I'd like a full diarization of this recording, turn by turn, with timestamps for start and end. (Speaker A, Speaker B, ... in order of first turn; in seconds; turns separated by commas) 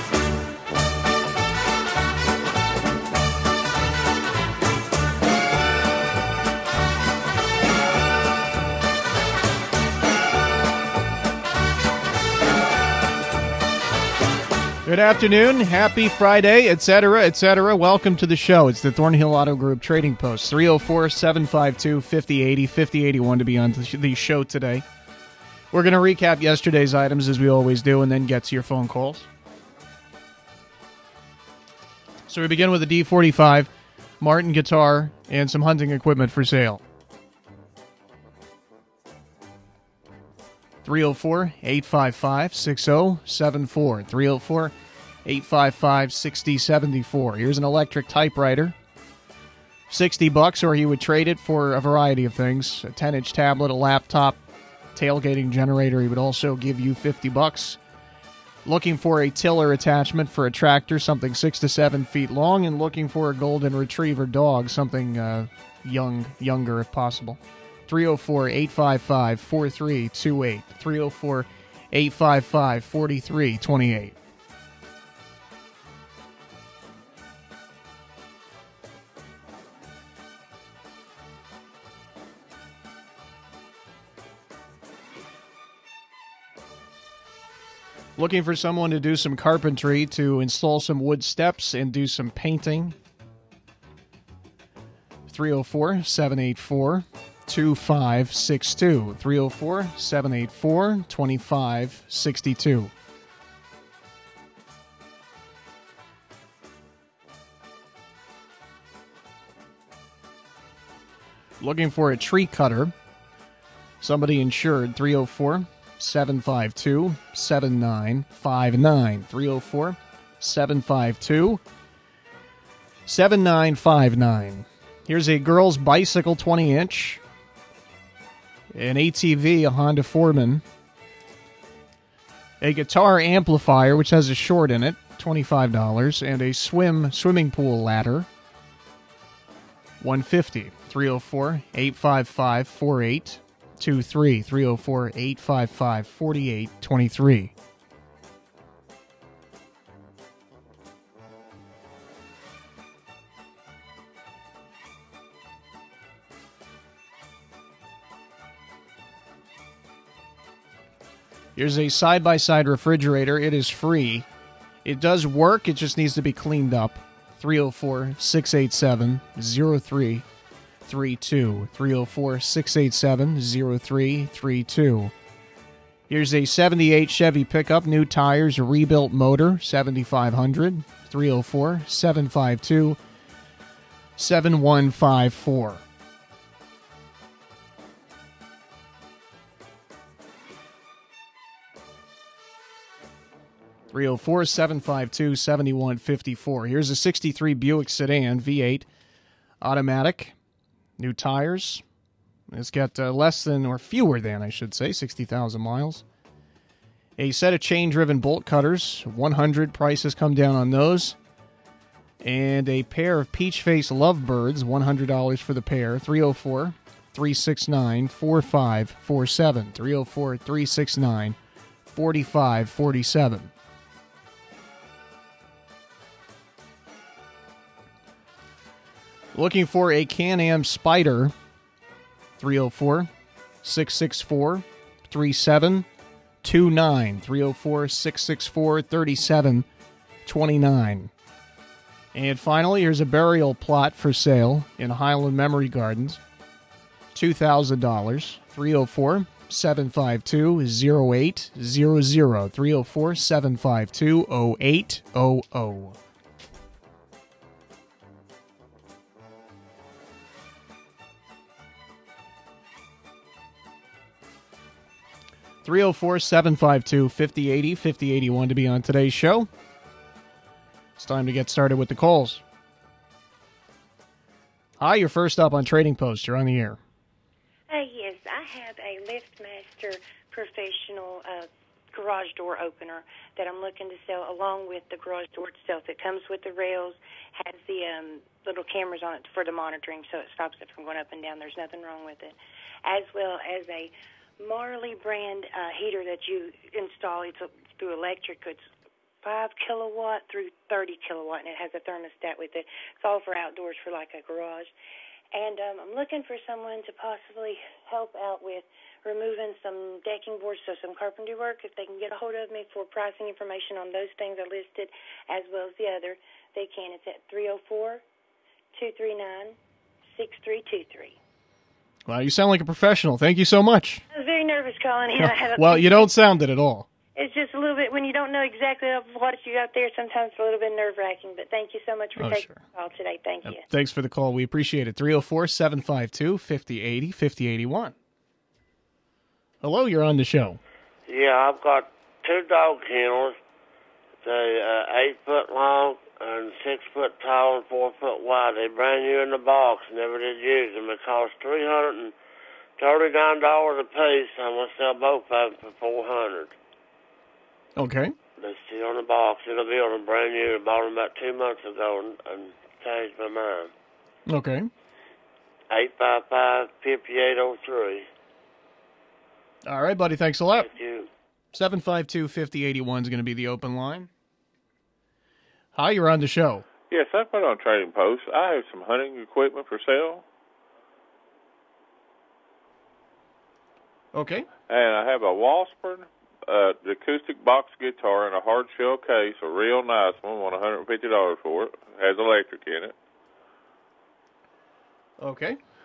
Speaker A: 14.8-24.9, Speaker A: 25.7-29.3, Speaker A: 32.3-36.8, Speaker A: 40.8-44.7, Speaker A: 45.2-48.8, Speaker A: 49.9-54.4, Speaker A: 55.0-57.8, Speaker A: 58.6-74.2, Speaker A: 88.2-93.0, Speaker A: 95.3-102.9, Speaker A: 111.6-112.9, Speaker A: 114.0-121.6, Speaker A: 123.1-127.2, Speaker A: 128.7-130.6, Speaker A: 132.6-138.3, Speaker A: 140.0-147.5, Speaker A: 161.6-164.3, Speaker A: 164.8-170.3, Speaker A: 170.9-175.1, Speaker A: 176.1-183.0, Speaker A: 184.2-185.8, Speaker A: 193.9-198.9, Speaker A: 199.6-200.3, Speaker A: 201.0-201.8, Speaker A: 202.5-206.0, Speaker A: 207.2-211.2, Speaker A: 212.2-221.4, Speaker A: 221.9-223.5, Speaker A: 229.3-231.3, Speaker A: 232.4-233.1, Speaker A: 233.6-235.9, Speaker A: 236.4-239.7, Speaker A: 240.3-241.1, Speaker A: 242.1-246.2, Speaker A: 247.1-256.0, Speaker A: 265.6-269.5, Speaker A: 271.0-272.4, Speaker A: 274.8-276.8, Speaker B: 277.7-298.7, Speaker B: 299.2-304.7, Speaker B: 305.3-318.0, Speaker B: 318.8-319.6, Speaker B: 320.1-321.2, Speaker A: 322.1-324.0, Speaker B: 324.1-326.1, Speaker A: 325.2-326.9, Speaker B: 327.2-333.6, Speaker A: 332.2-332.6, Speaker A: 333.4-337.9, Speaker A: 339.6-340.6, Speaker C: 341.1-343.4, Speaker C: 344.2-352.1, Speaker C: 352.8-356.6, Speaker A: 357.8-358.1, Speaker C: 358.4-363.7, Speaker A: 364.3-364.7, Speaker C: 365.7-368.1, Speaker A: 369.7-370.7, Speaker C: 370.6-371.1, Speaker A: 371.5-374.1, Speaker A: 375.8-376.6, Speaker D: 376.9-380.2, Speaker A: 384.1-384.5, Speaker D: 384.7-392.9, Speaker A: 395.2-395.6